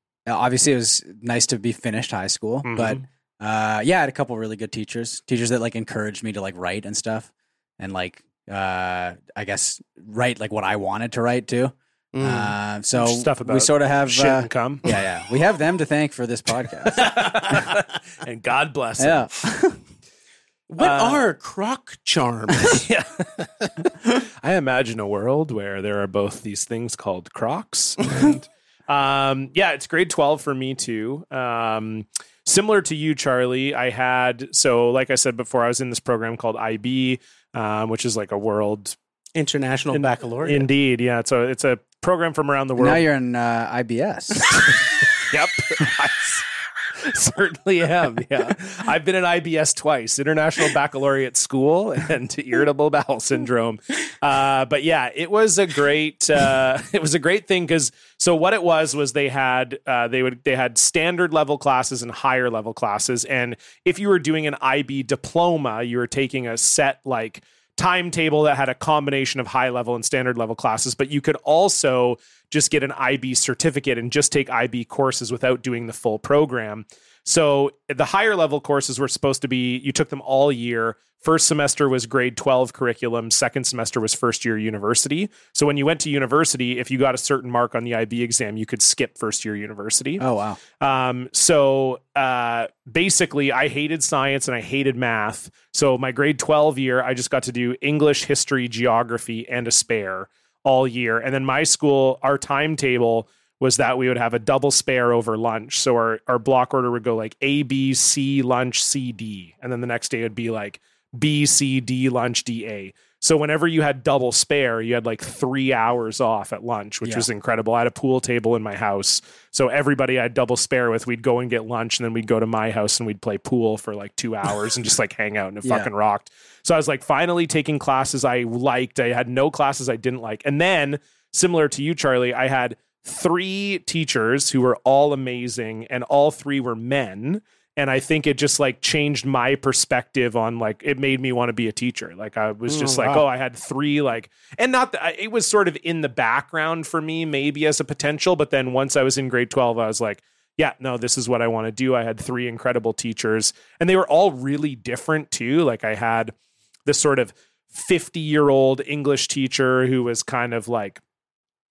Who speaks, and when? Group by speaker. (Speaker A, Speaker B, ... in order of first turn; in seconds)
Speaker A: 0.2-17.1, 19.0-19.8, 42.8-44.7, 90.2-90.6, 117.0-117.3, 125.6-125.9
Speaker B: 2.6-3.0, 12.9-14.9, 16.8-19.3, 20.8-21.3, 22.6-39.0, 39.9-43.0, 44.5-46.4, 47.0-90.2, 90.8-156.3, 156.8-161.0
Speaker C: 12.1-12.6, 20.7-22.8, 39.3-40.7, 142.7-143.2